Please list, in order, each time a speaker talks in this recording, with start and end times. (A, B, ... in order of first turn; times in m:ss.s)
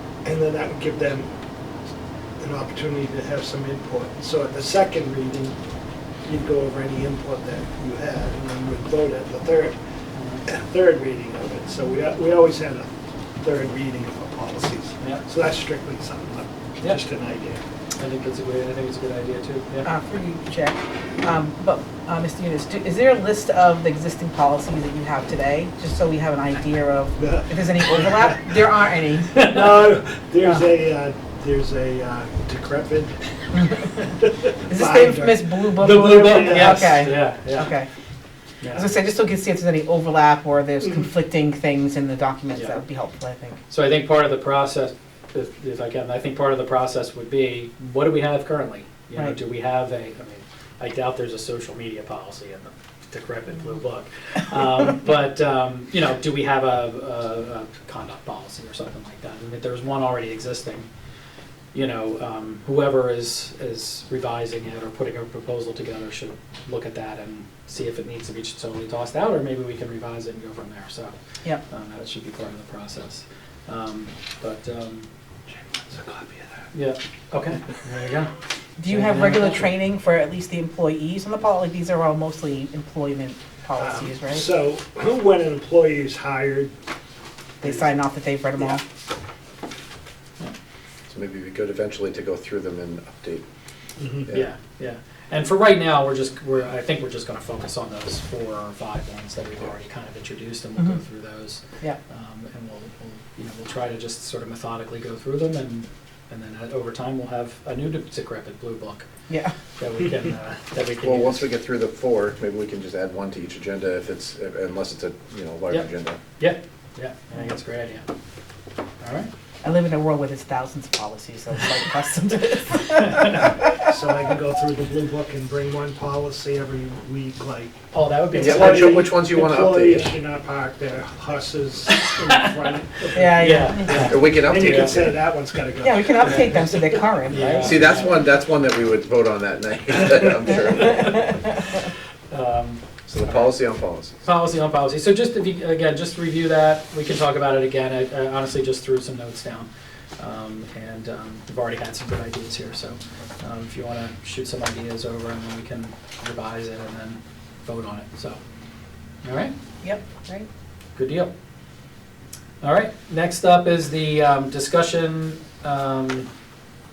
0:00.2-0:01.3 A
0:02.4-0:05.6 A
0:06.2-0:09.8 A
0:10.2-0:10.4 B
0:10.4-0:12.9 A
0:13.4-0:17.6 A
0:15.0-0:15.2 B
0:18.0-0:19.9 B
0:19.8-0:29.3 C
0:27.2-0:28.5 A
0:29.3-0:36.9 A
0:29.4-0:29.6 B
0:34.7-0:37.9 C
0:35.7-0:37.8 B
0:38.6-0:38.9 B
0:38.7-0:43.6 C
0:42.5-0:42.8 B
0:43.7-1:00.9 B
1:01.7-1:11.1 B
1:11.7-1:15.1 B
1:15.5-1:16.7 A
1:16.7-1:18.3 B
1:18.8-1:24.4 C
1:18.8-1:19.7 B
1:23.8-1:26.7 A
1:27.6-1:28.8 C
1:31.1-1:33.4 D
1:34.0-1:34.3 A
1:34.2-1:34.5 D
1:34.3-1:49.0 B
1:49.3-1:49.5 C
1:49.8-1:51.5 B
1:51.0-1:56.2 D
1:56.4-1:58.1 B
1:59.0-1:59.3 B
1:59.6-2:03.7 C
2:02.9-2:03.6 B
2:03.7-2:07.8 A
2:07.9-2:09.2 B
2:08.3-2:16.8 A
2:08.4-2:10.1 D
2:13.1-2:14.2 C
2:13.3-2:15.0 B
2:14.0-2:15.2 D
2:15.8-2:17.9 C
2:16.2-2:18.3 B
2:17.5-2:20.9 D
2:20.4-2:23.5 B
2:23.1-2:24.1 D
2:24.2-2:38.4 B
2:39.2-2:39.5 B
2:41.0-2:41.3 B
2:42.6-2:46.3 B